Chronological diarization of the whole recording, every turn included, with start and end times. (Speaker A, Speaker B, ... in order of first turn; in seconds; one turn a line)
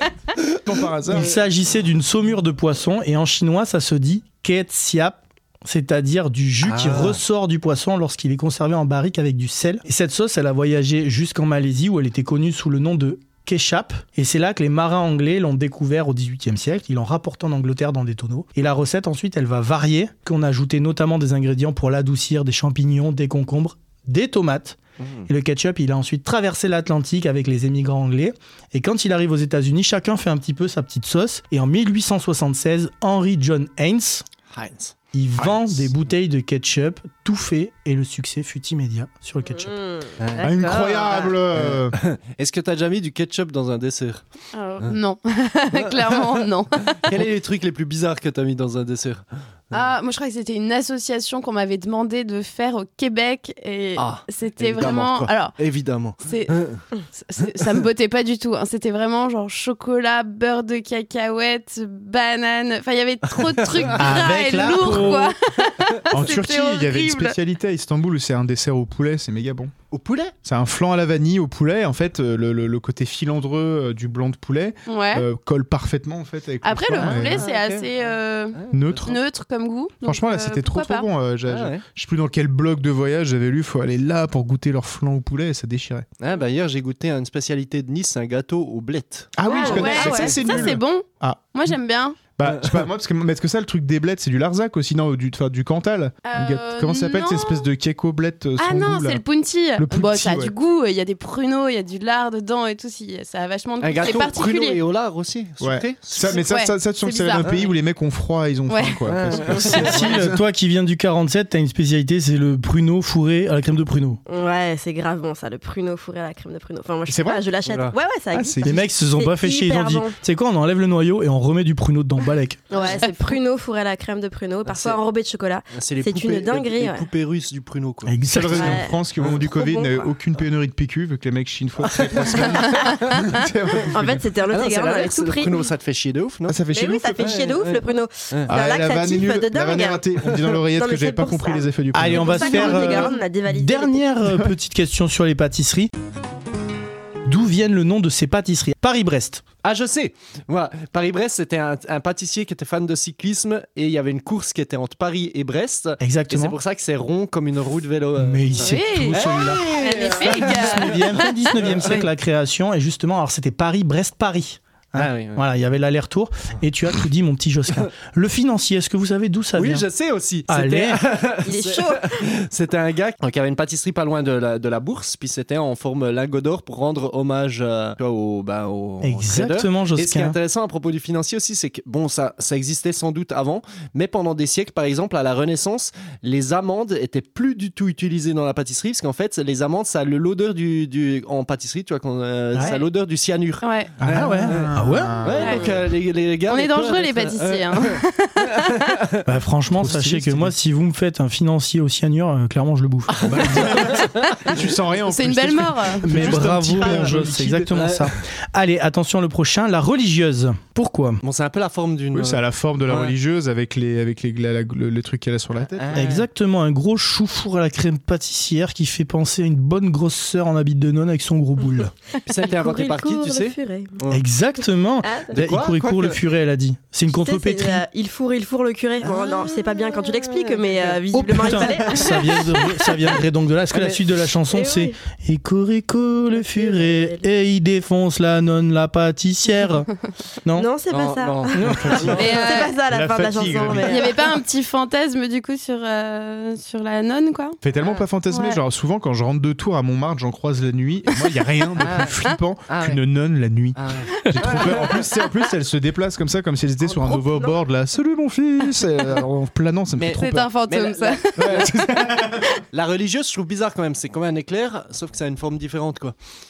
Speaker A: 0.6-1.3
Speaker B: 1.1-34.2
Speaker C: 6.6-7.2
Speaker C: 25.0-25.3
Speaker C: 34.5-35.6
Speaker B: 35.1-39.7
Speaker D: 39.4-41.2
Speaker C: 40.2-44.2
Speaker A: 40.4-42.0
Speaker E: 44.5-47.2
Speaker C: 45.7-49.9
Speaker E: 49.7-55.6
Speaker C: 54.0-56.8
Speaker E: 56.2-56.6
Speaker E: 57.1-67.3
Speaker C: 63.7-64.1
Speaker B: 64.0-65.3
Speaker A: 66.1-69.7
Speaker C: 69.9-70.3
Speaker A: 70.4-77.4
Speaker E: 74.9-75.2
Speaker E: 76.6-81.0
Speaker C: 77.0-79.1
Speaker A: 78.7-79.2
Speaker A: 80.0-86.1
Speaker C: 81.5-81.8
Speaker C: 86.2-90.7
Speaker A: 89.4-91.7
Speaker E: 89.5-92.2
Speaker A: 92.3-99.2
Speaker C: 92.4-92.9
Speaker E: 96.2-97.6
Speaker E: 98.6-104.8
Speaker A: 99.8-100.5
Speaker C: 103.8-106.4
Speaker A: 105.6-110.4
Speaker E: 106.3-107.6
Speaker C: 107.4-107.7
Speaker E: 108.7-110.0
Speaker C: 109.1-110.2
Speaker D: 109.6-110.1
Speaker B: 109.7-114.2
Speaker D: 114.2-120.2
Speaker A: 117.1-117.4
Speaker C: 117.6-117.9
Speaker A: 118.3-118.8
Speaker B: 118.6-122.6
Speaker D: 122.7-127.1
Speaker E: 122.8-123.4
Speaker C: 124.7-125.0
Speaker C: 125.7-129.4
Speaker B: 128.1-128.8
Speaker A: 128.3-134.3
Speaker D: 128.5-130.1
Speaker C: 131.8-132.7
Speaker E: 132.7-133.1
Speaker D: 133.9-135.7
Speaker C: 134.5-136.6
Speaker A: 136.5-137.2
Speaker D: 136.7-144.0
Speaker C: 137.2-138.5
Speaker A: 138.5-142.4
Speaker B: 141.9-145.9
Speaker E: 142.4-143.1
Speaker B: 147.2-149.4
Speaker C: 149.6-162.0
Speaker B: 156.0-156.6
Speaker B: 158.2-159.6
Speaker E: 158.5-161.8
Speaker D: 159.7-160.6
Speaker B: 160.4-169.8
Speaker C: 164.9-165.4
Speaker C: 169.6-193.7
Speaker B: 170.5-171.0
Speaker D: 171.4-172.2
Speaker B: 179.0-180.3
Speaker B: 192.5-192.8
Speaker E: 193.6-193.9
Speaker A: 194.0-195.6
Speaker B: 194.0-195.3
Speaker C: 195.2-198.0
Speaker E: 195.3-195.8
Speaker E: 196.5-198.9
Speaker B: 199.2-203.2
Speaker A: 199.7-200.6
Speaker C: 203.2-204.1
Speaker A: 203.2-207.9
Speaker E: 205.0-206.1
Speaker B: 206.0-211.2
Speaker C: 207.7-208.2
Speaker C: 211.2-213.1
Speaker A: 212.1-216.1
Speaker C: 215.7-216.2
Speaker B: 215.9-221.9
Speaker C: 222.2-224.2
Speaker D: 222.4-224.0
Speaker B: 224.1-227.8
Speaker D: 225.0-225.4
Speaker C: 225.3-226.2
Speaker D: 227.1-232.7
Speaker C: 229.0-231.8
Speaker B: 231.1-239.9
Speaker C: 233.7-234.0
Speaker D: 234.5-234.9
Speaker D: 236.3-237.3
Speaker B: 240.4-240.7
Speaker D: 240.5-244.3
Speaker C: 240.9-242.4
Speaker B: 241.5-242.3
Speaker E: 242.2-242.8
Speaker A: 242.8-244.0
Speaker E: 243.7-247.6
Speaker A: 247.6-260.5
Speaker C: 247.8-248.1
Speaker E: 248.3-248.6
Speaker C: 251.8-252.1
Speaker C: 252.7-253.0
Speaker C: 253.7-255.1
Speaker E: 254.2-254.5
Speaker C: 256.8-257.5
Speaker C: 259.9-261.7
Speaker E: 260.2-262.5
Speaker A: 261.4-262.5
Speaker C: 262.7-266.1